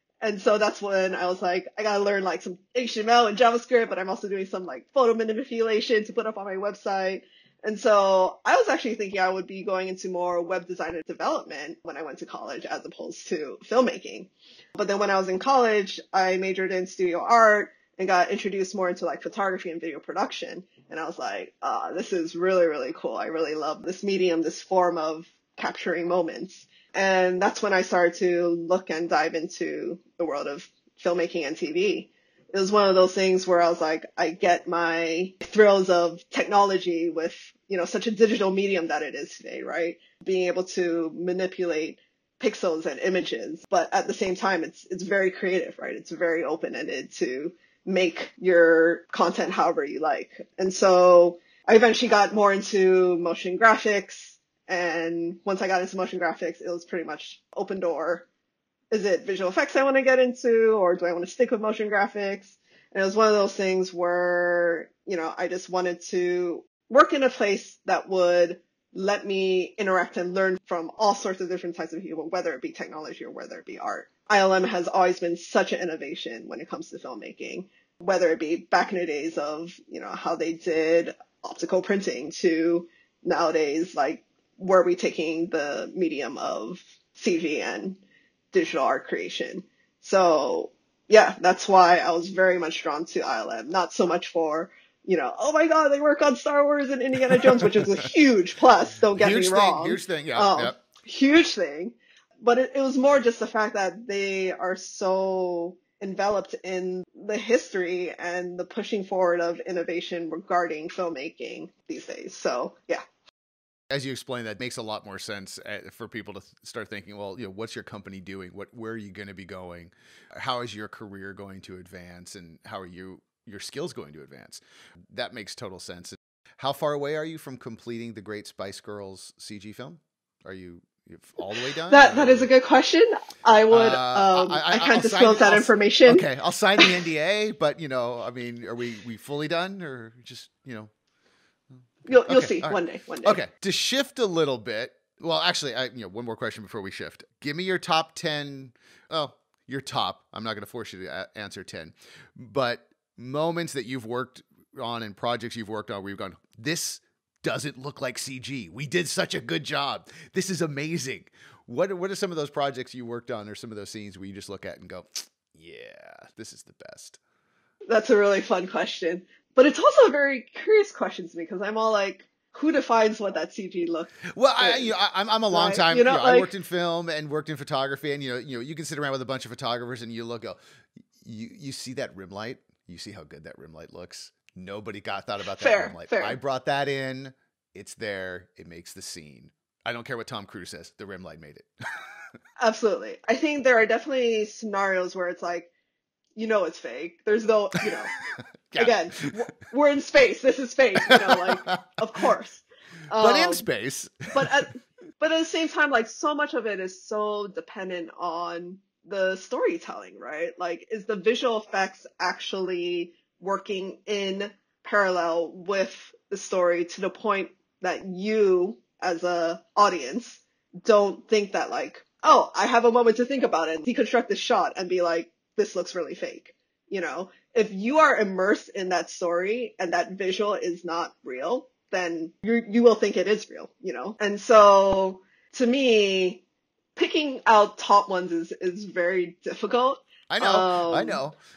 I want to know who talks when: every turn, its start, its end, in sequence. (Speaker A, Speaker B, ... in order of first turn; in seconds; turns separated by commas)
Speaker A: 0.2-58.2, Speaker A: 58.9-88.0, Speaker A: 88.5-113.0, Speaker B: 99.2-100.8, Speaker B: 113.9-132.5, Speaker A: 131.9-136.2, Speaker B: 133.7-140.9, Speaker B: 142.0-167.2, Speaker A: 142.1-143.4, Speaker A: 167.9-174.9, Speaker B: 174.3-180.6, Speaker A: 175.5-176.5, Speaker B: 181.2-191.7, Speaker A: 185.6-186.4, Speaker A: 192.6-195.7, Speaker A: 196.4-198.1, Speaker B: 198.7-199.0, Speaker A: 198.8-203.7, Speaker B: 201.1-201.8, Speaker B: 203.2-204.6, Speaker A: 204.3-236.4, Speaker A: 237.0-241.2, Speaker B: 240.3-241.4